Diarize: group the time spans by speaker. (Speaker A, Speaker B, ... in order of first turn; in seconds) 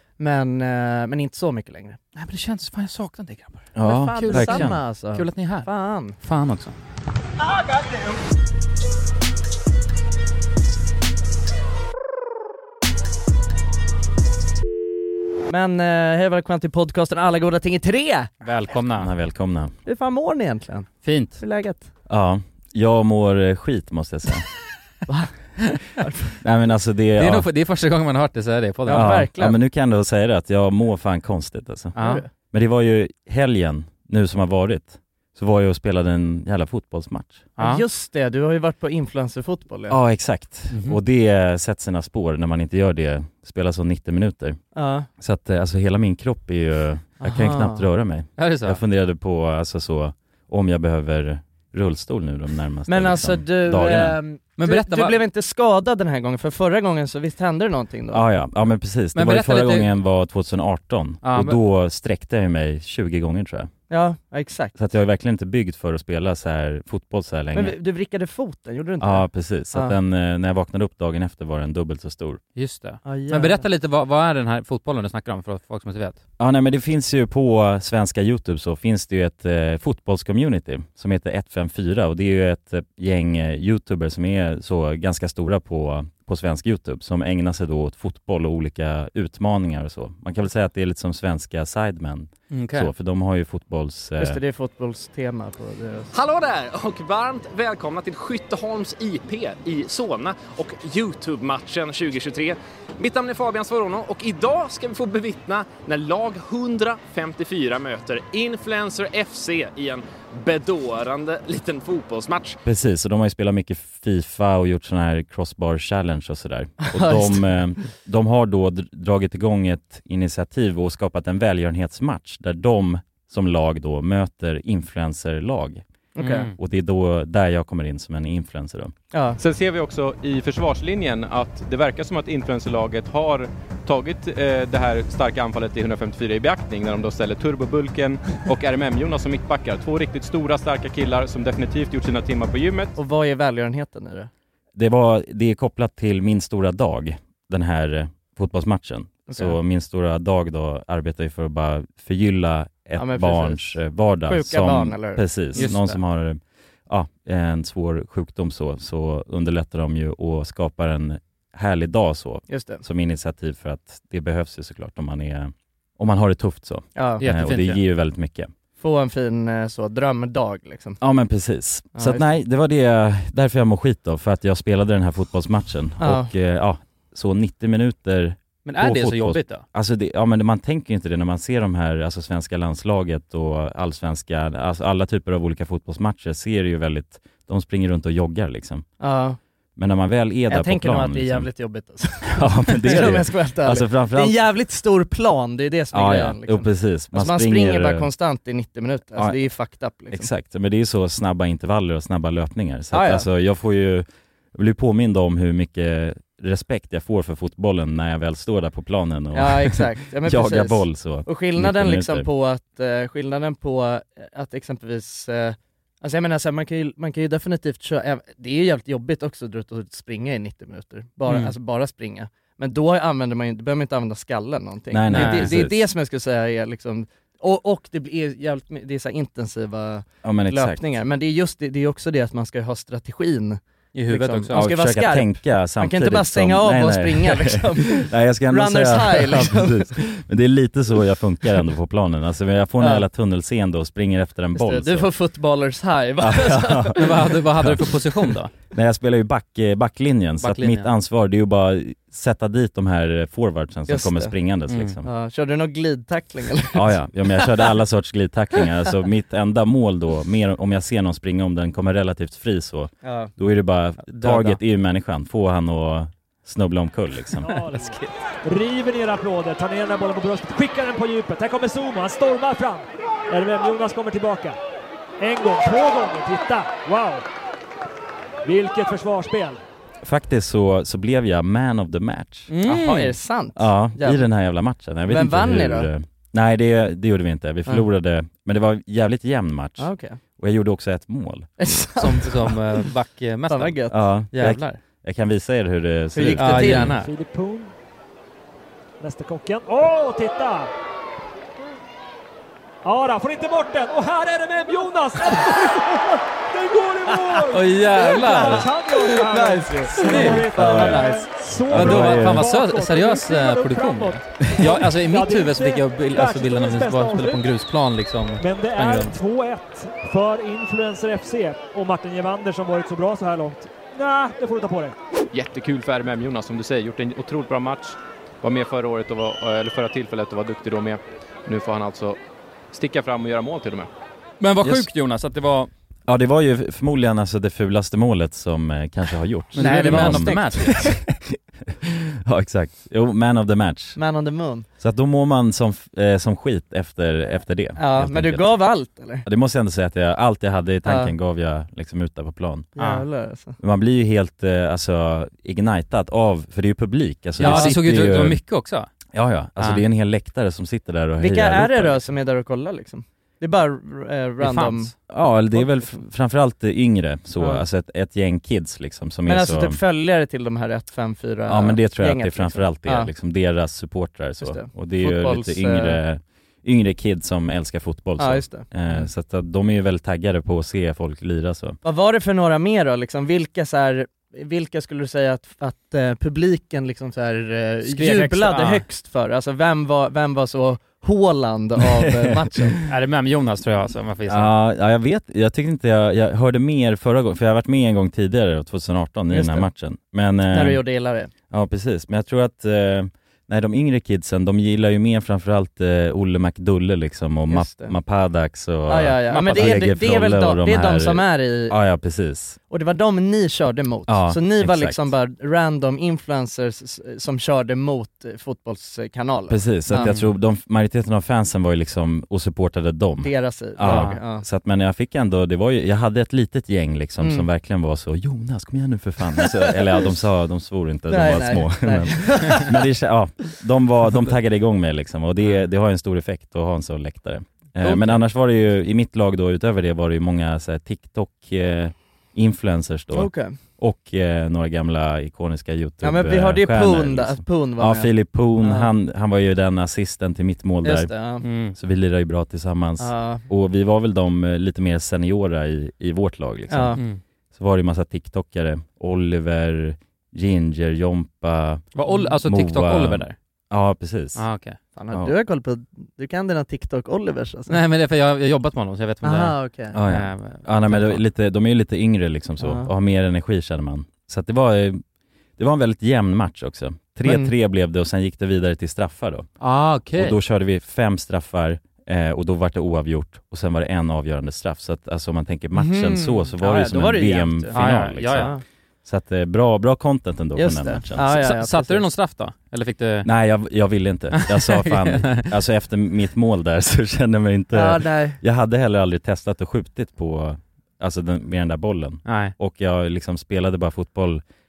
Speaker A: 0.2-2.0, 3.8-6.2, 15.5-18.3, 19.9-21.9, 25.1-25.3, 26.0-26.4, 28.9-29.6, 32.0-32.3, 37.6-40.0, 44.8-45.1, 47.2-47.8, 52.9-58.2, 63.9-64.8, 67.5-70.0, 73.0-73.7, 94.2-96.1, 116.8-117.6, 126.2-126.5, 129.1-129.4, 143.0-144.3, 153.0-155.9, 162.5-162.8, 167.0-167.2, 168.8-171.0, 171.9-172.2, 176.0-176.3, 189.0-189.4, 190.5-200.3, 202.9-203.3, 209.3-240.0, 242.8-243.1, 244.5-247.1, 253.9-254.3, 255.1-257.6, 263.0-263.3, 282.6-284.3, 285.1-285.9, 289.8-290.2, 291.6-292.9, 293.5-294.0, 296.1-296.9, 308.3-308.5, 309.2-310.8, 339.6-340.9, 344.0-344.7, 347.8-349.2, 350.9-351.1, 352.8-353.6, 357.4-357.8, 361.2-364.9, 365.6-365.9, 369.3-373.1, 374.4-376.0, 378.2-379.1, 381.8-392.8, 399.3-399.7, 400.5-401.3, 407.5-407.9, 408.9-411.8, 412.7-420.2, 423.2-424.4, 427.2-427.5, 429.4-429.7, 431.1-432.9, 443.1-443.6, 446.0-448.9, 450.8-451.4, 453.0-453.4, 456.7-457.0, 462.1-462.4, 465.0-467.8, 469.2-470.0, 472.6-472.9, 477.2-477.5, 485.7-488.6, 490.6-492.1, 497.7-498.4
Speaker B: 2.1-5.7, 6.2-6.8, 18.4-19.1, 21.0-21.4, 27.2-29.2, 32.0-32.2, 37.6-37.8, 40.7-41.0, 48.4-48.8, 54.6-55.2, 59.1-59.9, 61.2-61.6, 72.6-76.2, 92.5-92.9, 126.2-126.5, 155.6-156.0, 167.2-167.8, 178.7-179.6, 221.3-221.5, 225.1-225.5, 233.9-234.7, 247.0-248.5, 250.4-250.9, 254.7-255.0, 264.1-264.6, 267.5-268.1, 282.5-283.1, 292.0-294.8, 296.4-297.1, 307.5-308.7, 310.0-319.2, 334.4-335.7, 339.6-340.8, 352.8-353.1, 357.4-358.9, 364.4-364.9, 387.9-388.8, 392.9-394.5, 409.3-409.7, 423.8-424.2, 437.9-438.1, 451.4-451.8, 457.0-457.2, 461.9-463.4, 464.4-464.8, 467.7-471.2, 479.6-480.4, 487.7-488.5, 491.2-493.3, 494.4-495.5, 502.3-502.6
Speaker C: 3.8-4.8, 18.9-19.8, 22.1-24.4, 26.4-27.5, 28.9-32.0, 32.5-37.5, 39.9-44.6, 45.2-54.2, 58.1-63.7, 64.8-67.8, 69.0-72.4, 76.4-94.4, 112.7-125.8, 126.5-128.9, 144.8-168.5, 171.0-188.9, 189.8-191.5, 192.3-194.4, 195.9-198.1, 200.1-212.3, 224.9-225.8, 230.2-230.8, 234.5-245.1, 246.2-255.1, 256.7-267.5, 280.0-282.5, 283.6-291.5, 293.9-296.9, 310.5-311.1, 311.7-312.5, 334.6-334.9, 336.1-344.0, 344.8-348.6, 349.2-352.7, 353.6-358.4, 359.1-362.0, 365.1-369.8, 371.5-381.8, 394.3-400.8, 401.5-412.6, 414.1-415.1, 419.5-451.1, 451.7-457.0, 457.5-461.9, 462.4-464.4, 469.9-475.0, 475.6-479.5, 480.1-488.5, 489.1-491.3, 493.2-504.4
Speaker D: 96.1-112.6
Speaker E: 129.4-142.9, 325.3-332.2, 332.7-333.9
Speaker F: 267.4-274.6, 275.2-277.2, 278.4-279.6, 296.6-297.7, 299.0-300.7, 302.8-317.4, 318.4-324.9